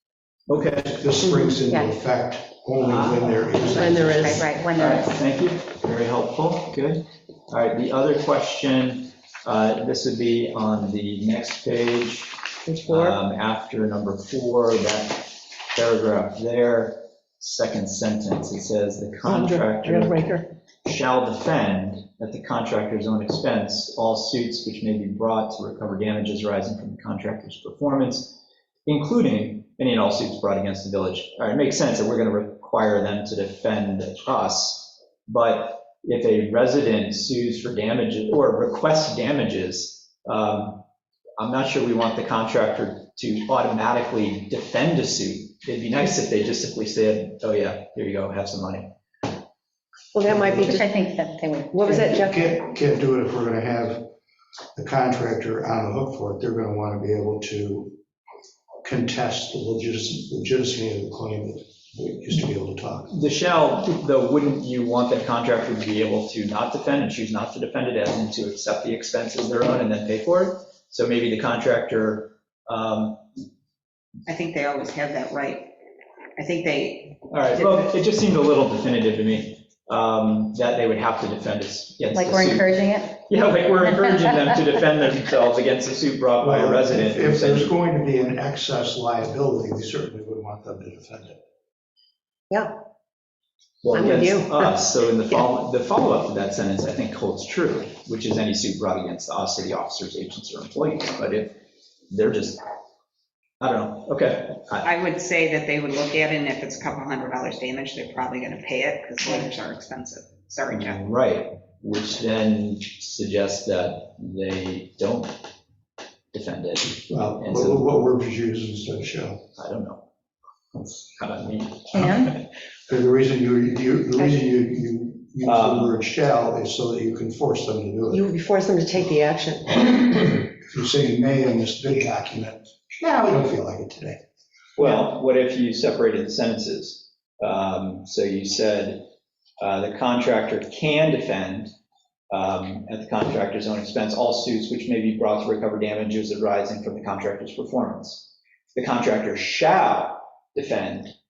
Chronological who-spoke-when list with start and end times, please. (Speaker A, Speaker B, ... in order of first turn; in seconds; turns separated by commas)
Speaker A: 0.5-1.0, Speaker B: 0.5-4.4, Speaker A: 2.8-40.8, Speaker C: 3.7-4.5, Speaker D: 4.2-5.2, Speaker C: 12.7-13.2, Speaker C: 19.2-20.4, Speaker A: 41.4-48.9, Speaker C: 50.1-50.9, Speaker A: 50.2-50.8, Speaker D: 50.6-52.0, Speaker C: 51.7-52.5, Speaker B: 51.9-54.1, Speaker B: 54.8-57.9, Speaker B: 58.8-63.1, Speaker A: 63.1-73.2, Speaker E: 74.3-75.7, Speaker E: 76.4-77.8, Speaker A: 77.3-87.7, Speaker D: 82.1-83.2, Speaker D: 83.8-84.3, Speaker B: 86.4-91.4, Speaker A: 93.8-101.5, Speaker C: 93.9-94.7, Speaker A: 102.1-102.6, Speaker A: 103.6-104.8, Speaker E: 104.8-111.0, Speaker A: 110.7-115.4, Speaker A: 116.3-117.9, Speaker B: 117.1-119.4, Speaker A: 119.5-120.0, Speaker A: 121.2-122.3, Speaker D: 121.9-122.3, Speaker B: 122.9-128.2, Speaker A: 125.4-126.0, Speaker C: 128.1-130.1, Speaker B: 129.8-134.2, Speaker A: 134.8-139.0, Speaker A: 139.6-141.7, Speaker A: 142.3-151.1